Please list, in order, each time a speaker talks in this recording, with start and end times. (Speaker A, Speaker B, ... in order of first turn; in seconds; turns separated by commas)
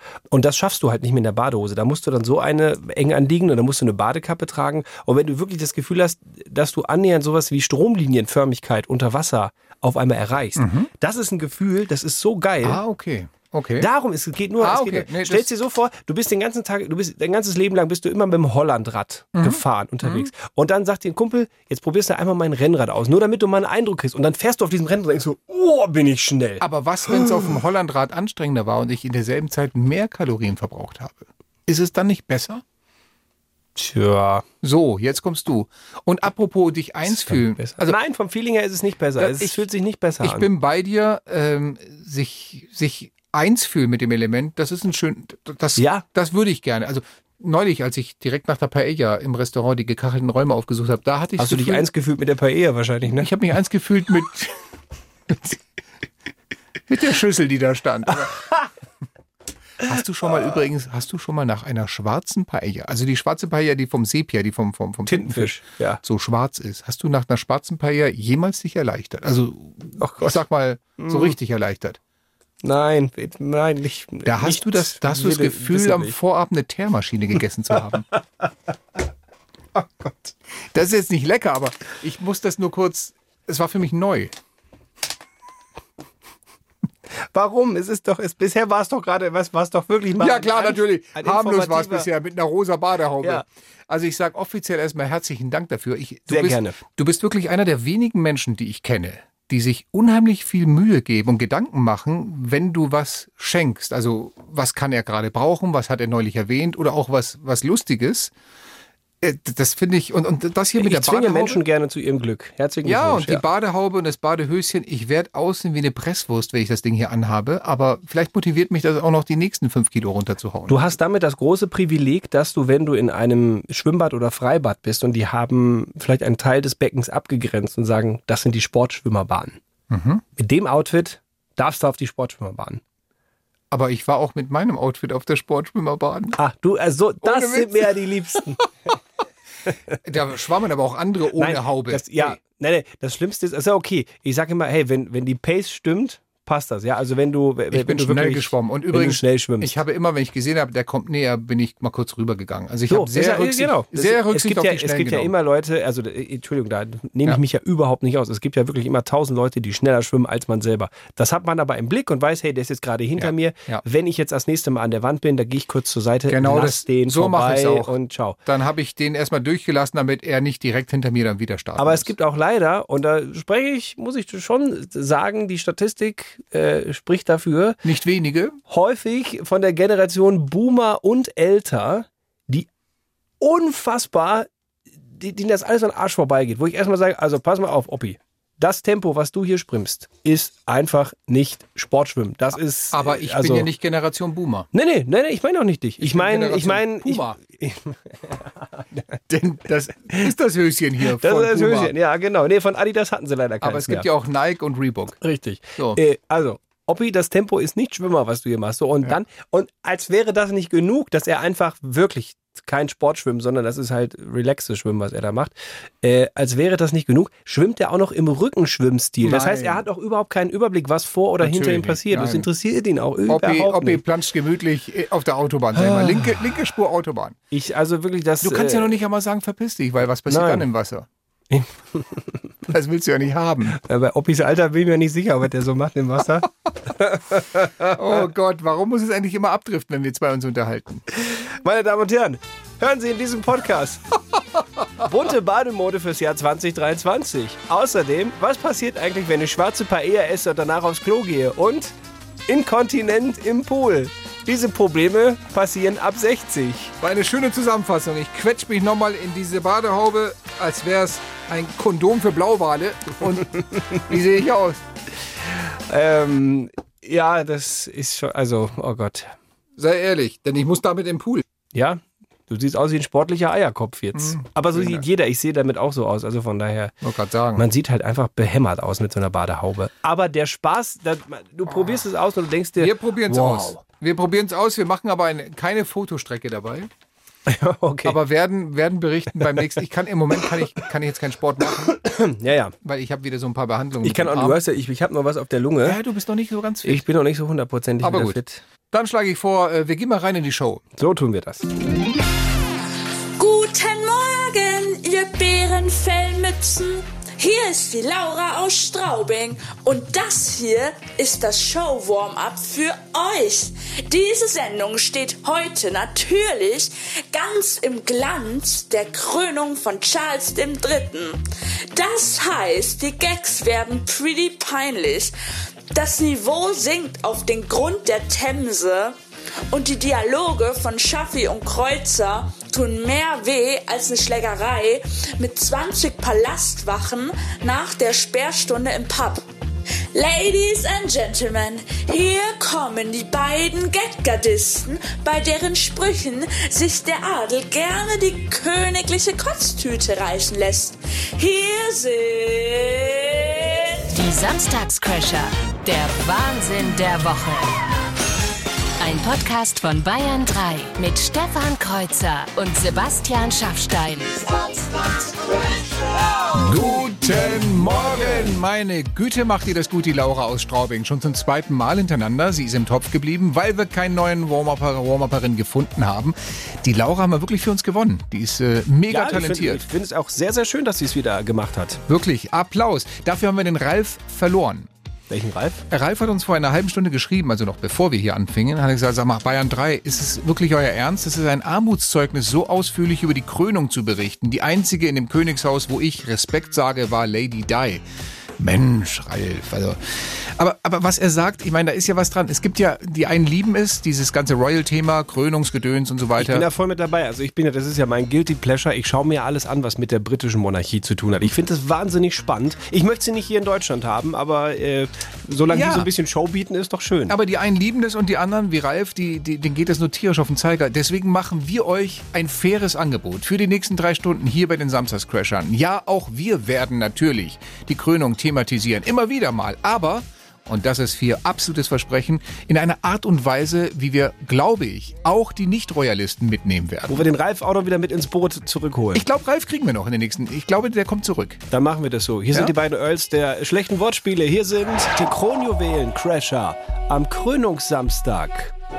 Speaker A: 0.3-12.8, Speaker B: 10.6-10.9, Speaker B: 12.6-13.9, Speaker A: 13.8-27.5, Speaker B: 14.6-15.5, Speaker B: 19.4-20.3, Speaker B: 26.6-32.6, Speaker A: 33.8-34.5, Speaker B: 34.6-38.0, Speaker A: 37.1-40.5, Speaker B: 39.2-39.6, Speaker B: 40.2-51.9, Speaker A: 45.8-46.0, Speaker A: 51.4-53.3, Speaker B: 53.1-54.6, Speaker B: 55.3-55.6, Speaker B: 56.9-58.5, Speaker B: 59.8-72.0, Speaker A: 65.1-66.0, Speaker A: 70.0-70.4, Speaker A: 71.0-71.3, Speaker A: 72.6-76.2, Speaker B: 74.2-78.1, Speaker A: 80.0-80.3, Speaker B: 80.7-84.3, Speaker A: 87.3-92.1, Speaker B: 90.2-108.3, Speaker A: 96.3-96.8, Speaker B: 109.2-111.6, Speaker A: 110.8-113.4, Speaker B: 112.8-120.9, Speaker A: 120.7-129.6, Speaker B: 129.9-130.2, Speaker A: 130.4-132.8, Speaker B: 133.7-136.4, Speaker A: 136.4-138.6, Speaker B: 137.2-138.0, Speaker B: 140.0-142.4, Speaker A: 141.4-149.7, Speaker B: 147.7-155.3, Speaker A: 152.9-168.4, Speaker B: 163.2-163.8, Speaker B: 166.3-172.1, Speaker A: 171.8-177.8, Speaker B: 177.8-178.6, Speaker A: 178.7-182.7, Speaker A: 183.4-184.5, Speaker A: 185.2-193.7, Speaker B: 192.9-194.7, Speaker A: 194.7-198.8, Speaker B: 196.0-197.4, Speaker B: 199.3-201.9, Speaker A: 201.1-204.1, Speaker B: 203.6-205.2, Speaker A: 205.2-224.0, Speaker B: 219.2-219.8, Speaker B: 221.4-222.5, Speaker B: 223.3-227.4, Speaker A: 225.8-226.2, Speaker A: 227.5-229.0, Speaker B: 228.4-231.1, Speaker A: 230.3-230.7, Speaker A: 231.5-232.2, Speaker B: 232.7-233.8, Speaker A: 233.7-238.0, Speaker B: 237.9-241.0, Speaker A: 241.2-244.0, Speaker A: 245.0-251.9, Speaker A: 252.5-256.9, Speaker B: 257.0-264.8, Speaker A: 265.9-269.4, Speaker B: 269.8-271.4, Speaker A: 271.7-276.9, Speaker B: 274.1-275.0, Speaker B: 277.0-277.6, Speaker A: 277.6-283.8, Speaker B: 282.8-286.9, Speaker A: 287.5-288.2, Speaker B: 288.1-292.0, Speaker A: 291.9-292.8, Speaker B: 292.8-294.6, Speaker A: 294.0-296.0, Speaker B: 295.8-297.1, Speaker A: 296.8-298.6, Speaker B: 298.0-298.4, Speaker B: 298.9-300.8, Speaker A: 301.0-301.7, Speaker C: 303.4-325.4, Speaker C: 325.9-329.2, Speaker C: 329.7-339.4, Speaker C: 340.1-354.0, Speaker D: 354.1-357.8, Speaker D: 359.0-364.9, Speaker B: 366.5-379.9, Speaker A: 379.1-382.0, Speaker B: 382.1-384.9, Speaker A: 385.3-385.8, Speaker B: 385.9-398.0, Speaker B: 398.6-406.7, Speaker A: 406.4-417.4, Speaker B: 415.7-416.1, Speaker B: 417.3-437.3, Speaker A: 437.1-439.2, Speaker B: 439.1-441.6, Speaker A: 441.7-448.7